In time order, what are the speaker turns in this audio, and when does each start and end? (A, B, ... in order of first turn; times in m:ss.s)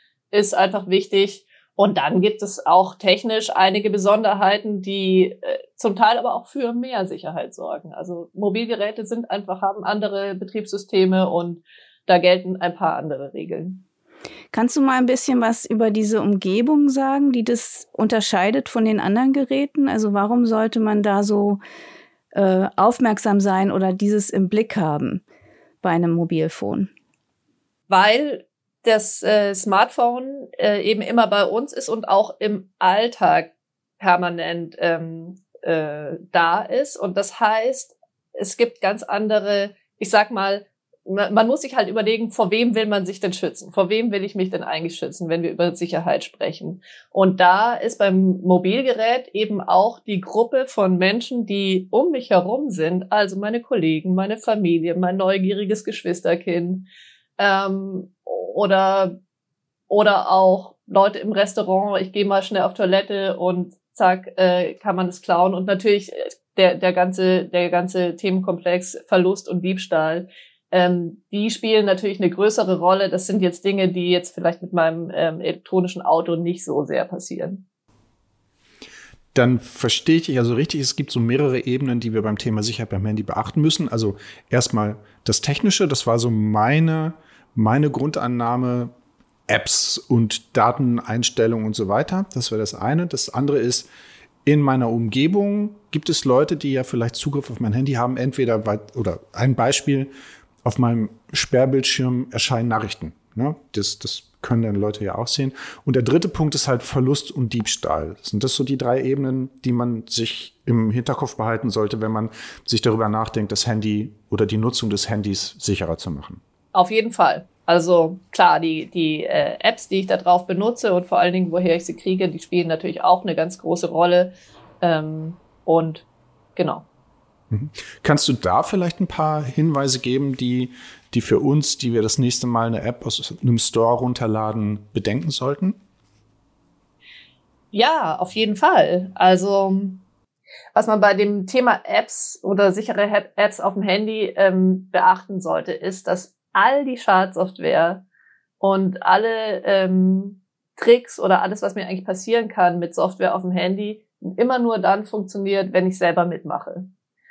0:00.3-0:13.8 A
0:14.5-0:21.6 B
0:22.3-0:25.2 B
0:25.8-0:26.9 B
0:27.9-0:59.2 A
0:59.9-1:17.6 A
1:19.3-1:28.9 C
1:29.5-1:33.9 C
1:34.4-1:40.1 C
1:40.6-1:56.4 C
1:56.7-2:06.0 A
2:06.6-2:06.8 A
2:07.5-2:15.8 C
2:17.7-2:20.0 A
2:20.7-2:28.0 A
2:28.6-2:36.9 A